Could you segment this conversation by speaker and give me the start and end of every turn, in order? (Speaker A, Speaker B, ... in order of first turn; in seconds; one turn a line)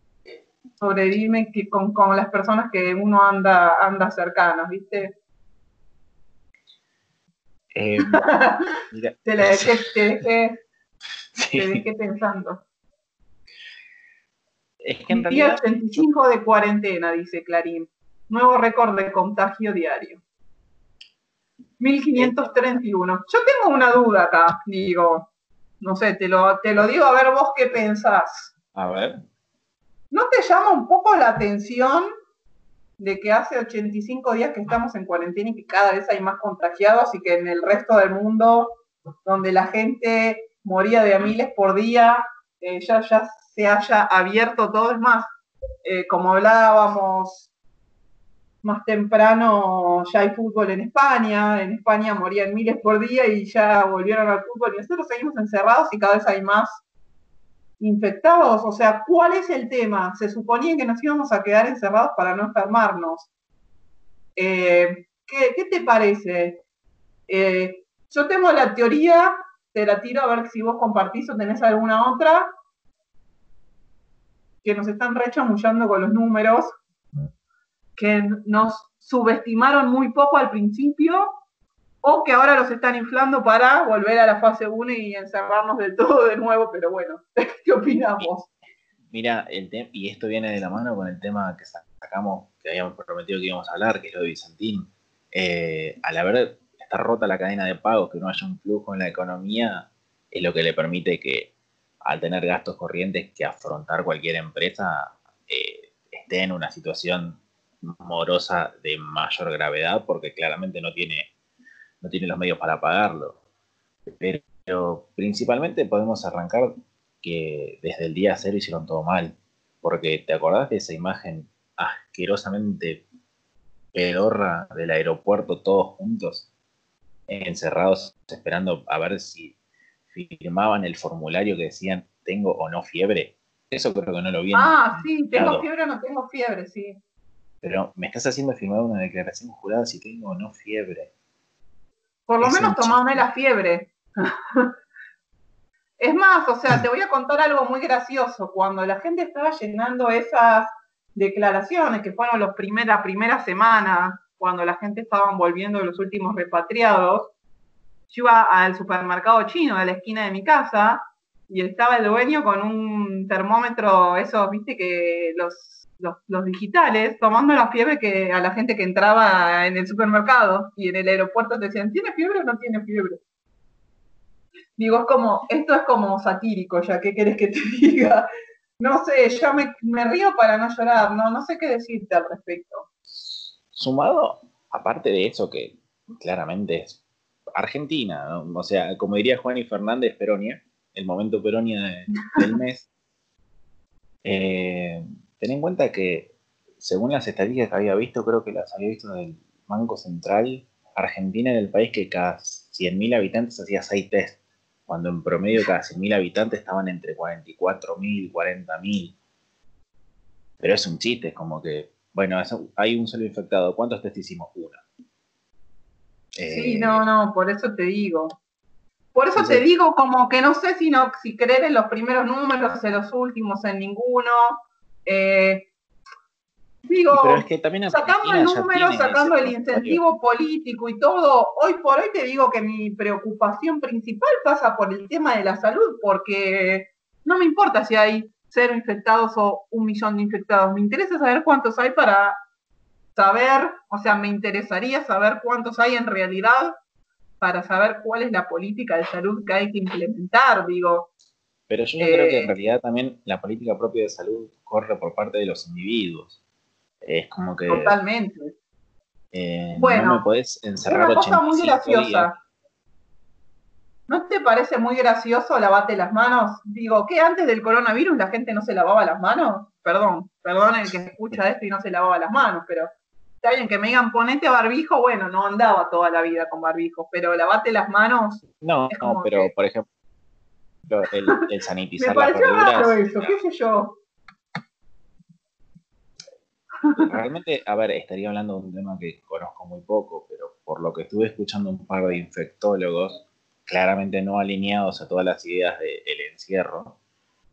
Speaker A: 0.8-5.2
Speaker B: 7.7-8.2
Speaker A: 8.1-8.7
Speaker B: 8.9-9.8
Speaker A: 9.2-10.6
Speaker B: 11.3-11.8
Speaker A: 11.5-12.6
Speaker B: 14.8-16.1
Speaker A: 15.1-20.2
Speaker A: 21.8-25.3
Speaker B: 22.1-22.6
Speaker A: 25.8-28.5
Speaker B: 28.7-29.2
Speaker A: 30.1-32.0
Speaker A: 33.0-45.3
Speaker A: 45.8-47.5
Speaker A: 48.6-56.8
Speaker A: 57.8-63.3
Speaker A: 64.3-66.6
Speaker A: 67.3-72.5
Speaker A: 74.6-76.7
Speaker A: 78.0-81.3
Speaker A: 82.0-88.5
Speaker B: 89.1-101.5
Speaker B: 102.0-111.3
Speaker B: 112.0-113.4
Speaker B: 114.1-123.0
Speaker B: 123.9-126.5
Speaker B: 127.3-129.5
Speaker B: 130.1-135.6
Speaker A: 134.5-137.0
Speaker B: 137.6-141.1
Speaker A: 142.3-144.7
Speaker B: 142.4-143.2
Speaker A: 146.0-157.3
Speaker A: 158.1-173.2
Speaker A: 174.8-178.3
Speaker A: 178.8-182.8
Speaker B: 183.2-187.0
Speaker B: 187.5-192.9
Speaker B: 194.2-209.2
Speaker B: 210.6-214.8
Speaker B: 216.3-217.0
Speaker A: 216.4-218.3
Speaker A: 219.1-225.7
Speaker B: 219.3-219.6
Speaker A: 226.9-242.4
Speaker B: 227.1-230.0
Speaker A: 243.2-246.8
Speaker A: 247.4-251.1
Speaker B: 251.7-256.4
Speaker A: 252.0-252.5
Speaker B: 257.0-257.9
Speaker A: 257.7-258.5
Speaker B: 259.3-262.3
Speaker A: 259.7-260.2
Speaker A: 260.8-262.3
Speaker A: 264.1-272.9
Speaker A: 273.4-279.5
Speaker B: 278.6-279.9
Speaker B: 280.9-283.4
Speaker A: 282.0-284.0
Speaker A: 286.8-287.1
Speaker B: 287.0-296.9